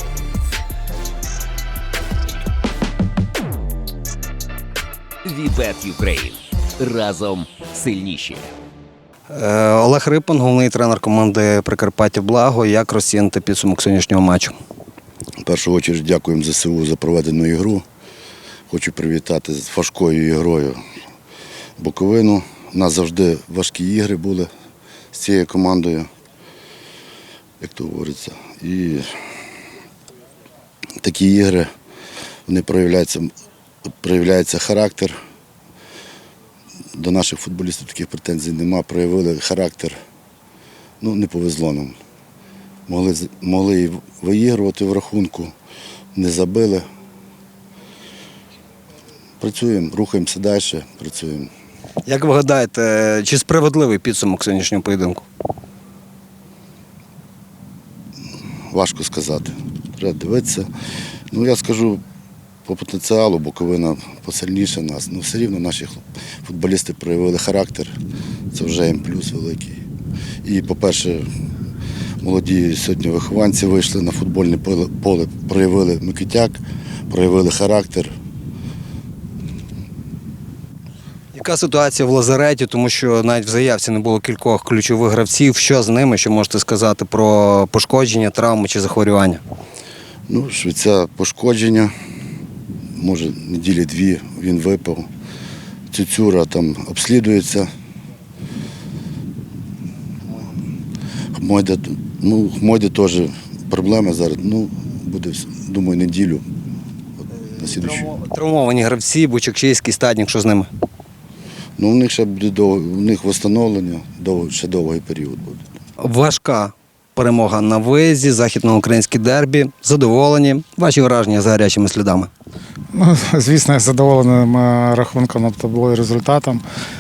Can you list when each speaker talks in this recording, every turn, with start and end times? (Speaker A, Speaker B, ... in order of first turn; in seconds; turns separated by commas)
Speaker A: 5.2-8.5, Speaker B: 9.3-14.6, Speaker C: 15.4-17.9, Speaker C: 18.7-20.8, Speaker C: 21.8-24.5, Speaker C: 25.1-26.1, Speaker C: 27.6-29.1, Speaker C: 31.0-31.7, Speaker C: 32.5-33.3, Speaker C: 34.0-35.2, Speaker C: 36.9-40.0, Speaker C: 41.0-42.0, Speaker C: 42.9-45.5, Speaker C: 46.1-46.9, Speaker C: 49.4-51.5, Speaker B: 52.1-55.2, Speaker C: 58.7-60.7, Speaker C: 61.3-62.0, Speaker C: 62.7-68.0, Speaker C: 68.5-69.8, Speaker C: 70.4-71.3, Speaker C: 72.2-78.1, Speaker B: 81.3-89.4, Speaker C: 90.3-91.9, Speaker C: 93.0-95.1, Speaker C: 95.9-97.7, Speaker C: 101.4-106.5, Speaker C: 107.6-108.1, Speaker B: 107.8-110.7, Speaker C: 111.8-115.6, Speaker B: 116.0-122.3, Speaker D: 122.9-126.6